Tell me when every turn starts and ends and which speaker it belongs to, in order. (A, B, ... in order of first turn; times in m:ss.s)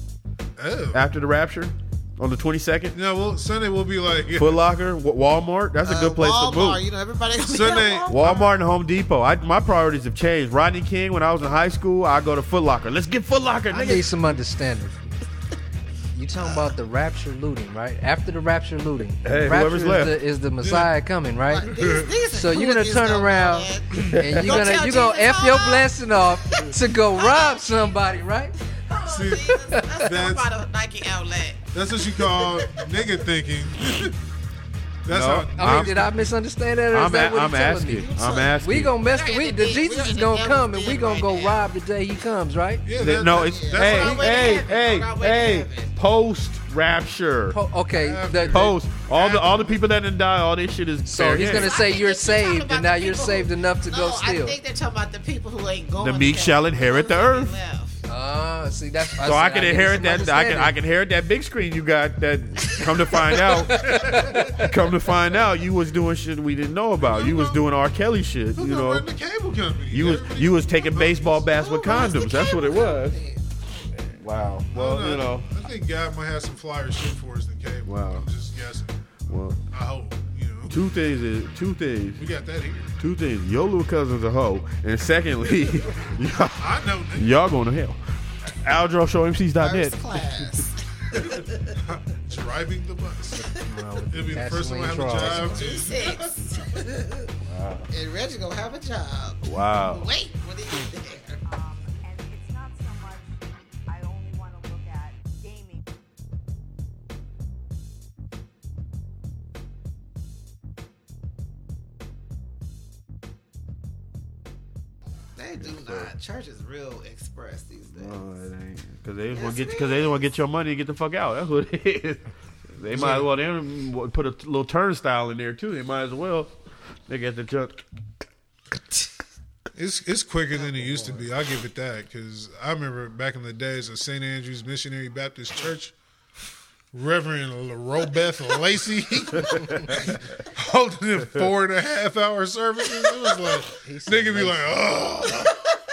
0:00.6-0:01.0 A
0:00.9-0:03.0 B
0:02.9-0:04.6 A
0:04.4-0:06.8 B
0:05.8-0:08.2 C
0:07.4-0:08.5 A
0:08.1-0:14.1 B
0:13.7-0:15.1 D
0:16.1-0:21.7 D
0:16.4-0:16.6 C
0:19.2-0:20.2 B
0:20.6-0:20.9 A
0:21.5-0:27.8 C
0:21.8-0:22.1 A
0:22.3-0:28.5 D
0:24.0-0:24.7 B
0:28.9-0:33.1 C
0:29.0-0:30.5 A
0:29.7-0:30.0 D
0:31.7-0:34.1 A
0:35.0-0:36.1 A
0:35.1-0:36.0 B
0:35.6-0:42.8 D
0:36.9-0:38.9 B
0:38.0-0:41.6 C
0:42.8-0:44.6 A
0:43.0-0:47.6 B
0:43.1-0:45.9 C
0:47.5-0:48.7 D
0:47.9-0:49.8 A
0:48.5-0:51.7 B
0:51.1-0:54.6 D
0:51.4-0:58.0 C
0:56.0-0:57.6 B
0:58.1-1:00.7 D
0:59.2-1:09.0 B
1:02.8-1:03.6 C
1:03.6-1:04.6 A
1:07.0-1:07.6 A
1:08.6-1:11.4 A
1:09.9-1:13.2 B
1:11.5-1:13.4 C
1:14.0-1:15.5 B
1:14.7-1:19.0 A
1:17.9-1:18.2 B
1:19.3-1:19.6 B
1:19.6-1:20.8 A
1:20.7-1:22.2 B
1:22.2-1:22.9 A
1:23.0-1:30.0 B
1:26.6-1:27.3 A
1:29.6-1:31.7 C
1:31.8-1:33.4 A
1:33.4-1:35.6 D
1:34.1-1:36.2 A
1:35.2-1:37.3 C
1:37.4-1:37.9 B
1:37.9-1:41.4 C
1:39.4-1:40.1 B
1:41.5-1:45.9 E
1:55.4-1:58.2 C
1:55.6-1:56.1 B
1:57.9-2:06.5 B
1:59.3-2:00.2 C
2:02.9-2:03.3 A
2:07.1-2:07.8 B
2:09.7-2:15.9 A
2:10.8-2:11.1 C
2:16.9-2:25.6 A
2:23.7-2:24.9 D